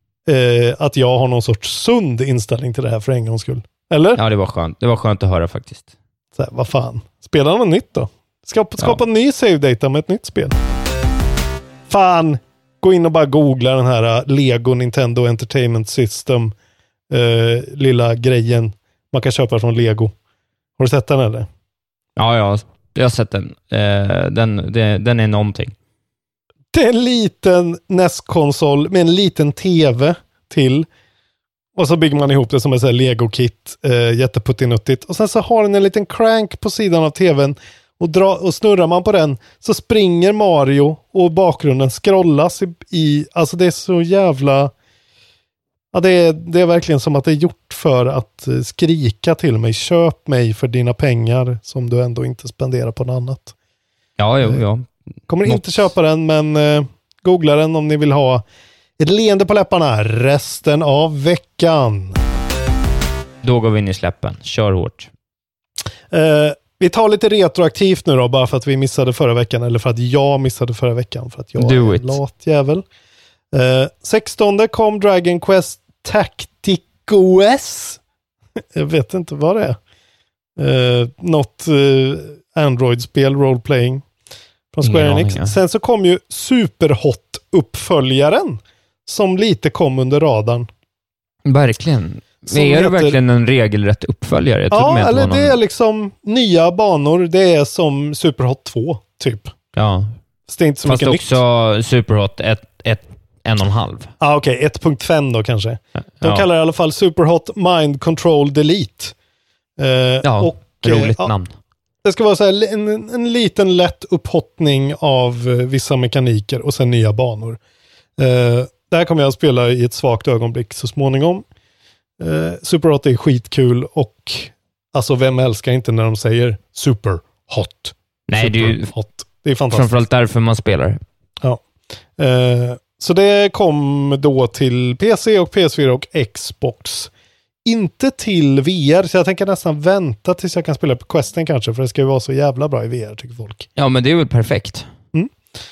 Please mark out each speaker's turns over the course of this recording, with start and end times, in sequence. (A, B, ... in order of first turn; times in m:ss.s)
0:00.3-0:04.2 A
0:04.2-0:05.9 B
0:06.4-0:10.6 A
0:11.9-0:16.6 A
0:17.1-0:20.1 A
0:20.8-0:21.5 A
0:22.2-0:25.7 B
0:26.7-0:30.9 A
0:31.8-0:44.7 A
0:45.9-0:53.5 A
0:54.2-0:54.9 B
0:55.3-0:58.4 A
0:55.4-0:55.9 B
0:59.0-1:02.2 A
1:03.4-1:05.1 B
1:06.1-1:12.8 A
1:11.6-1:12.2 B
1:13.5-1:18.0 A
1:18.7-1:19.8 A
1:20.6-1:24.0 A
1:24.7-1:30.7 A
1:24.8-1:25.6 B
1:31.5-1:35.6 B
1:32.5-1:33.2 A
1:34.7-1:39.5 A
1:39.8-1:40.1 B
1:40.5-1:41.4 A
1:40.8-1:44.1 B
1:44.2-1:49.2 A
1:46.2-1:46.5 B
1:49.8-1:51.3 A
1:50.2-1:51.5 B
1:52.0-1:57.6 A
1:58.2-2:01.4 A
2:02.2-2:09.9 A
2:08.3-2:08.9 B
2:09.7-2:11.0 B
2:12.2-2:17.1 A
2:17.6-2:23.7 A
2:23.8-2:24.9 B